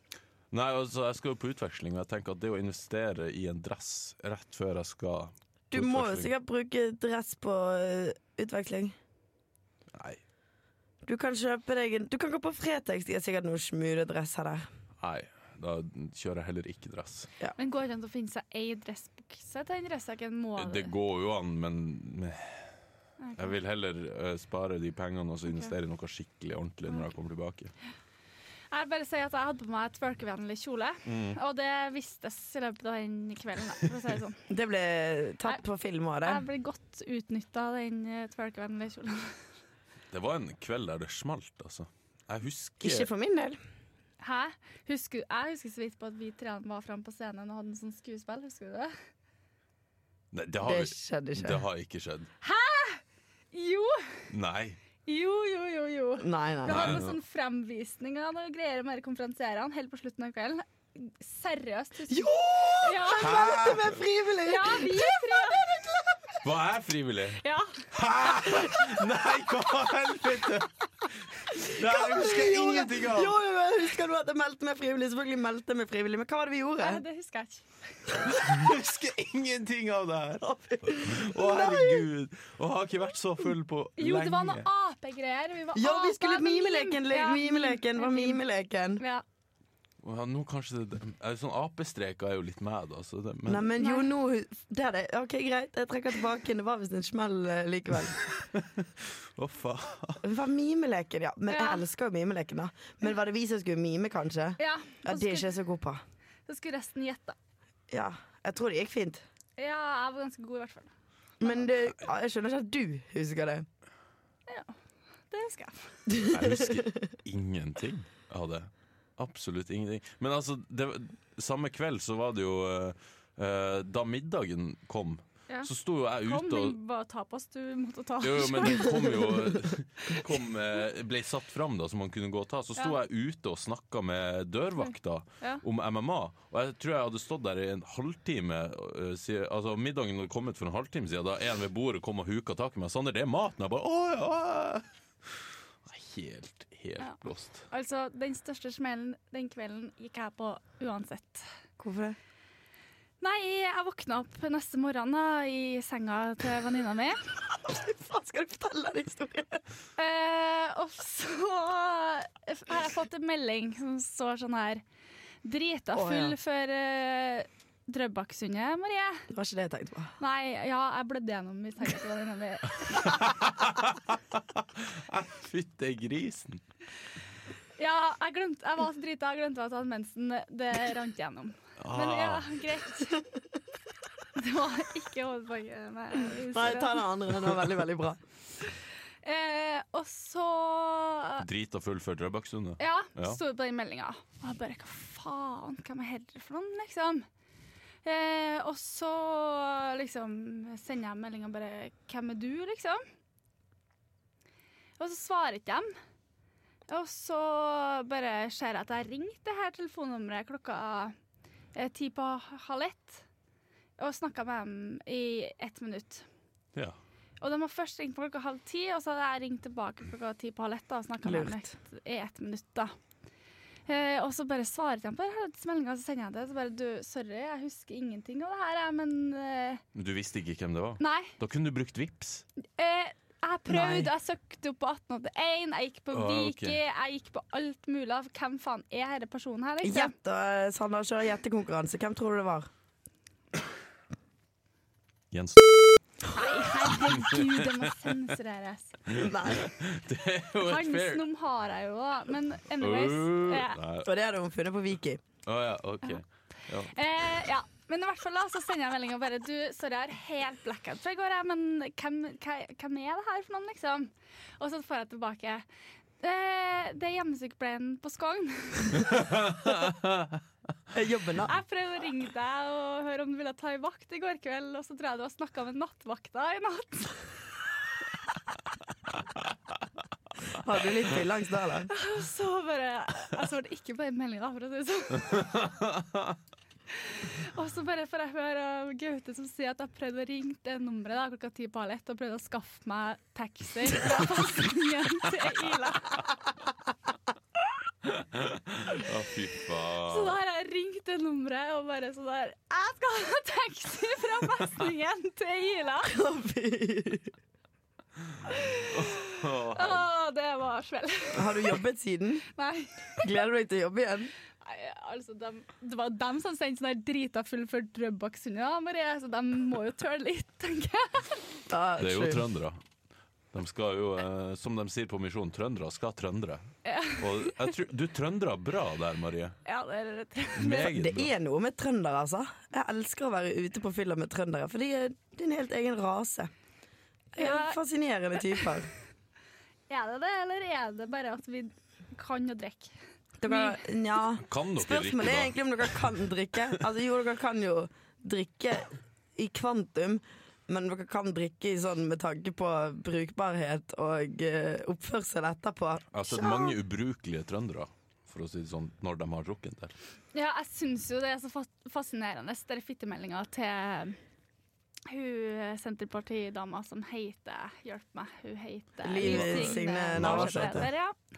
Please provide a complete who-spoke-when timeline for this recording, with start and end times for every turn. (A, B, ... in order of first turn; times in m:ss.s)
0:00.5-0:06.3 A
0:05.7-0:09.0 B
0:09.9-0:10.2 A
0:11.0-0:14.7 B
0:15.0-0:17.3 A
0:17.6-0:20.9 C
0:20.6-0:22.7 A
0:23.2-0:23.6 C
0:23.4-0:27.7 A
0:25.5-0:25.7 C
0:28.7-0:34.4 C
0:31.0-0:31.4 A
0:34.5-0:36.4 B
0:36.2-0:39.4 C
0:40.1-0:43.1 A
0:42.8-0:43.6 B
0:44.2-0:48.9 C
0:50.3-0:52.3 A
0:50.6-0:51.6 B
0:52.4-0:54.3 C
0:54.3-0:54.8 A
0:55.1-1:03.6 C
0:56.2-0:57.0 B
0:56.7-0:57.2 A
1:02.1-1:06.4 B
1:03.2-1:04.0 A
1:04.4-1:05.6 C
1:06.4-1:13.4 A
1:07.4-1:07.8 C
1:08.5-1:08.9 B
1:11.6-1:17.0 B
1:16.8-1:18.1 C
1:18.2-1:18.6 B
1:18.4-1:24.7 A
1:20.4-1:22.1 B
1:24.0-1:28.4 C
1:25.8-1:29.0 B
1:29.0-1:29.2 C
1:30.0-1:33.7 A
1:33.5-1:38.2 B
1:33.8-1:34.1 C
1:38.4-1:40.2 A
1:40.2-1:46.0 B
1:41.5-1:41.8 C
1:44.6-1:45.5 C
1:46.5-1:47.4 C
1:47.9-1:49.2 B
1:49.6-1:50.9 C
1:51.4-1:53.7 B
1:54.5-1:54.8 C
1:55.3-1:56.1 C
1:56.1-1:57.0 B
1:56.3-2:06.8 A
2:06.2-2:09.3 C
2:08.2-2:24.8 A
2:25.8-2:27.6 A
2:27.7-2:31.5 C
2:31.8-2:32.2 B
2:33.2-2:37.2 C
2:37.6-2:39.6 B
2:40.0-2:44.8 C
2:45.4-2:49.3 C
2:46.0-2:46.4 B
2:49.3-2:50.1 B
2:50.2-2:53.2 C
2:52.9-2:56.6 A
2:57.8-3:03.2 C
3:01.8-3:02.5 A
3:04.4-3:07.0 C
3:06.4-3:08.2 B
3:09.2-3:11.5 C
3:11.4-3:13.4 A
3:12.8-3:17.3 C
3:18.0-3:23.0 C
3:25.0-3:25.9 C
3:26.9-3:31.2 C
3:31.7-3:33.2 C
3:34.0-3:36.3 C
3:37.4-3:42.9 C
3:41.2-3:41.7 B
3:43.9-3:49.8 C
3:50.0-3:52.4 A
3:51.0-3:51.3 C
3:52.8-4:00.1 C
3:53.7-3:54.1 B
3:56.1-3:56.8 A
3:59.8-4:02.7 B
4:05.3-4:05.7 A
4:06.3-4:09.0 C
4:06.9-4:07.6 A
4:09.1-4:11.2 A
4:09.1-4:09.7 B
4:10.6-4:13.8 C
4:12.8-4:14.1 A
4:14.0-4:15.2 B
4:15.5-4:17.0 A
4:16.9-4:25.6 C
4:26.2-4:29.2 C
4:29.0-4:30.4 A
4:30.9-4:31.5 B
4:31.4-4:37.3 C
4:40.5-4:41.9 B
4:41.9-4:45.7 C
4:45.3-4:46.3 A
4:47.0-4:56.3 C
4:58.0-5:00.4 A
5:00.0-5:06.1 C
5:06.0-5:07.3 B
5:08.5-5:11.7 C
5:08.7-5:10.1 A
5:11.3-5:12.4 B
5:12.6-5:13.2 C
5:13.2-5:14.3 B
5:14.6-5:21.4 C
5:21.7-5:22.4 B
5:22.0-5:22.8 A
5:23.5-5:29.6 A
5:26.8-5:27.7 C
5:29.6-5:30.9 C
5:30.6-5:31.3 A
5:30.8-5:36.5 B
5:37.3-5:38.9 B
5:37.4-5:37.8 C
5:39.9-5:42.9 C
5:43.4-5:56.7 B
5:43.5-5:43.8 C
5:44.4-5:45.9 A
5:56.1-5:59.9 A
6:00.3-6:04.2 C
6:05.1-6:11.2 C
6:09.0-6:10.9 B
6:09.2-6:10.9 A